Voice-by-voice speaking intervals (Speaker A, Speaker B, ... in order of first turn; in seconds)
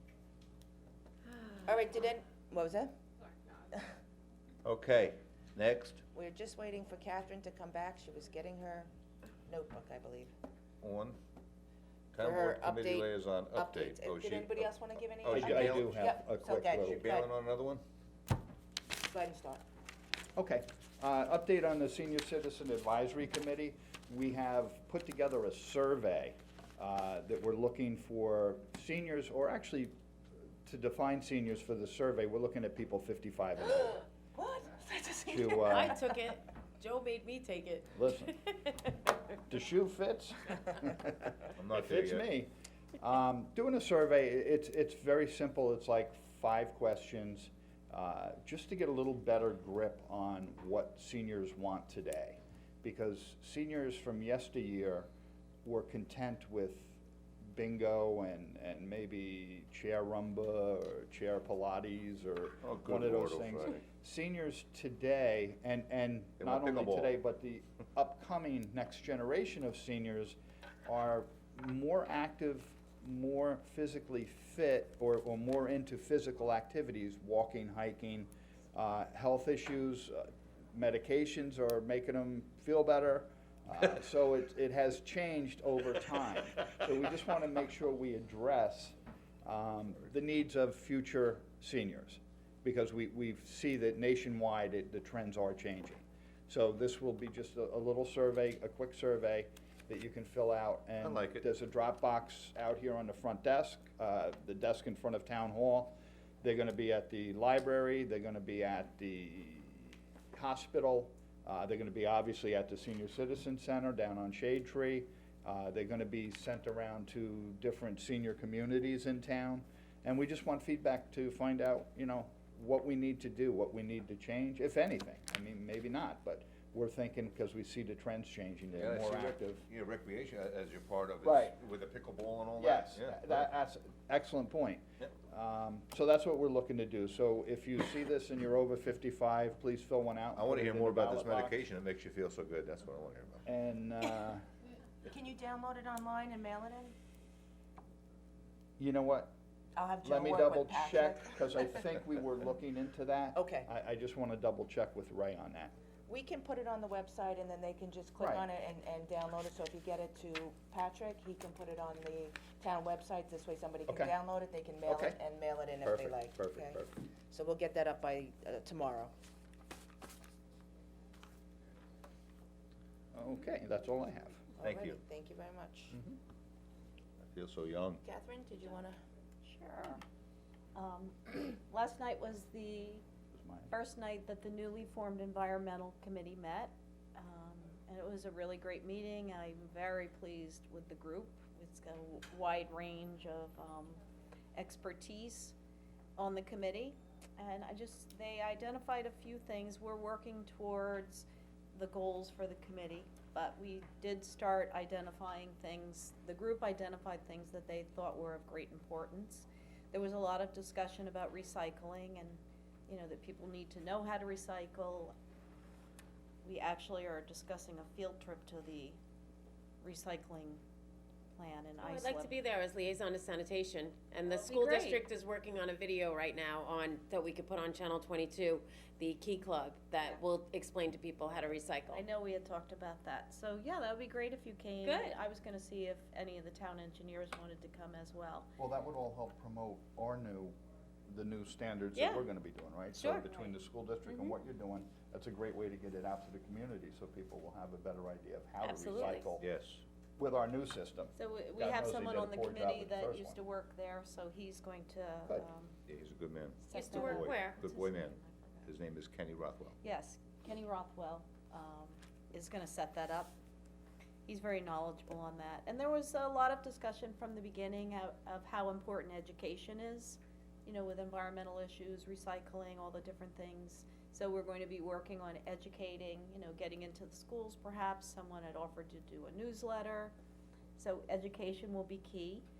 Speaker A: 1.6-2.9, 6.1-8.9, 9.5-10.3, 12.2-17.3, 18.9-19.6, 34.3-35.9, 145.0-146.9, 149.8-151.8, 153.3-153.7, 156.1-169.1, 174.6-176.0, 178.0-179.0
Speaker B: 4.6-6.0, 10.8-11.2, 12.1-14.7, 15.2-16.0, 16.8-17.8, 41.6-42.3, 62.6-63.8, 66.4-67.1, 101.0-101.4, 128.8-133.5, 140.3-143.4, 174.6-175.0, 177.2-178.0, 249.4-249.8, 255.9-259.8
Speaker C: 15.3-17.1, 20.4-29.9, 30.6-34.0, 35.2-36.0, 37.9-38.3, 39.5-55.1, 55.6-57.0, 57.5-129.6, 131.2-131.6, 132.6-141.6, 143.4-144.4, 148.8-149.3, 150.0-155.7, 158.2-158.4, 163.9-164.1, 164.9-165.2, 165.8-166.9, 173.1-174.5, 175.9-176.2, 183.3-183.7, 238.6-240.6, 241.1-249.4, 250.2-253.4
Speaker D: 35.7-38.7, 221.8-232.0, 234.8-235.2, 241.9-242.2, 242.9-243.5, 244.1-244.3, 248.6-249.3, 256.7-257.6
Speaker E: 179.4-180.0, 180.8-183.0, 183.7-194.0, 194.5-195.5, 196.2-215.2, 216.4-219.0, 219.8-220.6, 221.3-222.3, 224.2-225.0, 231.9-238.5, 251.2-255.8, 256.6-258.7, 259.8-263.4, 264.3-280.1, 280.8-282.4